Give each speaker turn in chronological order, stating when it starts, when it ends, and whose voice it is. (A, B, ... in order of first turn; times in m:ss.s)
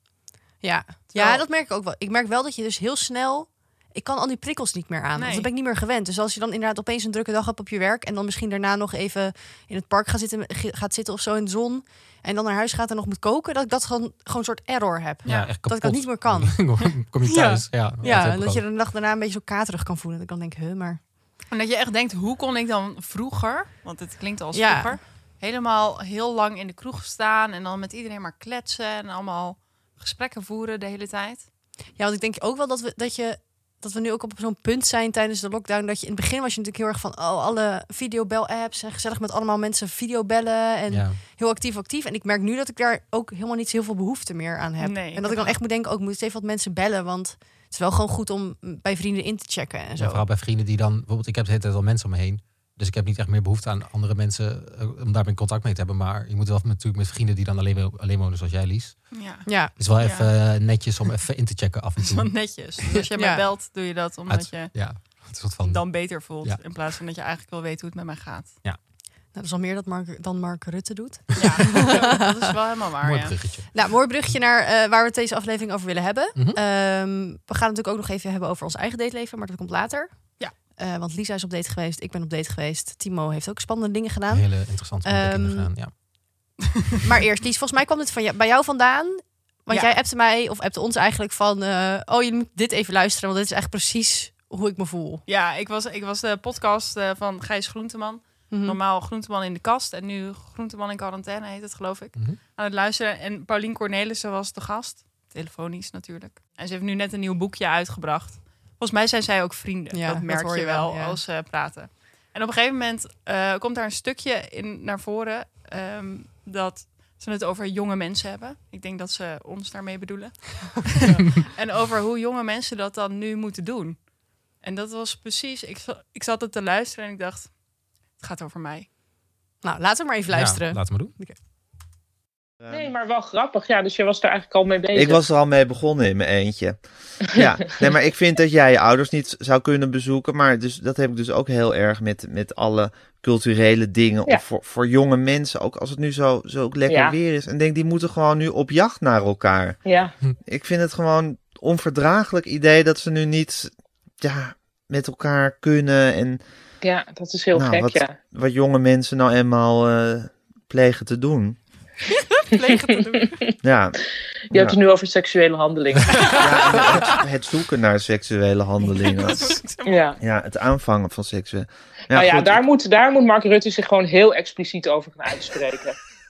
0:00.6-0:16.6 A
0:01.1-0:01.4 B
0:05.1-0:05.5 B
0:15.2-0:15.5 B
0:15.2-0:18.6 C
0:17.2-0:21.0 A
0:21.5-0:31.4 B
0:24.5-0:25.0 A
0:32.0-0:50.2 A
0:40.9-0:41.2 C
0:44.8-0:45.6 B
0:50.0-0:59.1 C
0:59.1-0:59.5 B
0:59.4-0:59.7 A
0:59.8-1:03.0 C
1:00.0-1:00.3 B
1:02.0-1:04.8 B
1:03.2-1:03.4 A
1:04.3-1:06.6 C
1:05.6-1:08.5 B
1:09.3-1:12.3 A
1:11.4-1:13.4 B
1:13.0-1:13.7 C
1:13.7-1:25.7 A
1:16.3-1:16.6 C
1:24.3-1:25.9 C
1:27.0-1:35.2 A
1:29.7-1:30.0 B
1:35.3-2:04.0 B
1:38.5-1:38.8 A
1:49.9-1:51.2 A
2:04.6-2:07.5 B
2:08.2-2:08.9 B
2:09.6-2:11.3 A
2:10.3-2:11.1 C
2:12.6-2:12.9 D
2:12.7-2:15.2 E
2:14.9-2:16.8 D
2:17.3-2:29.8 D
2:26.9-2:27.2 E
2:29.8-2:30.1 E
2:30.4-2:36.4 D
2:36.8-2:38.2 E
2:37.5-2:41.6 D
2:42.4-2:43.4 A
2:42.6-2:43.5 E
2:43.6-2:44.0 D
2:44.5-2:46.8 E
2:44.5-2:44.8 D
2:46.4-2:49.6 D
2:49.0-2:50.1 B
2:49.8-2:50.2 E
2:50.2-2:52.6 D
2:52.1-2:56.0 E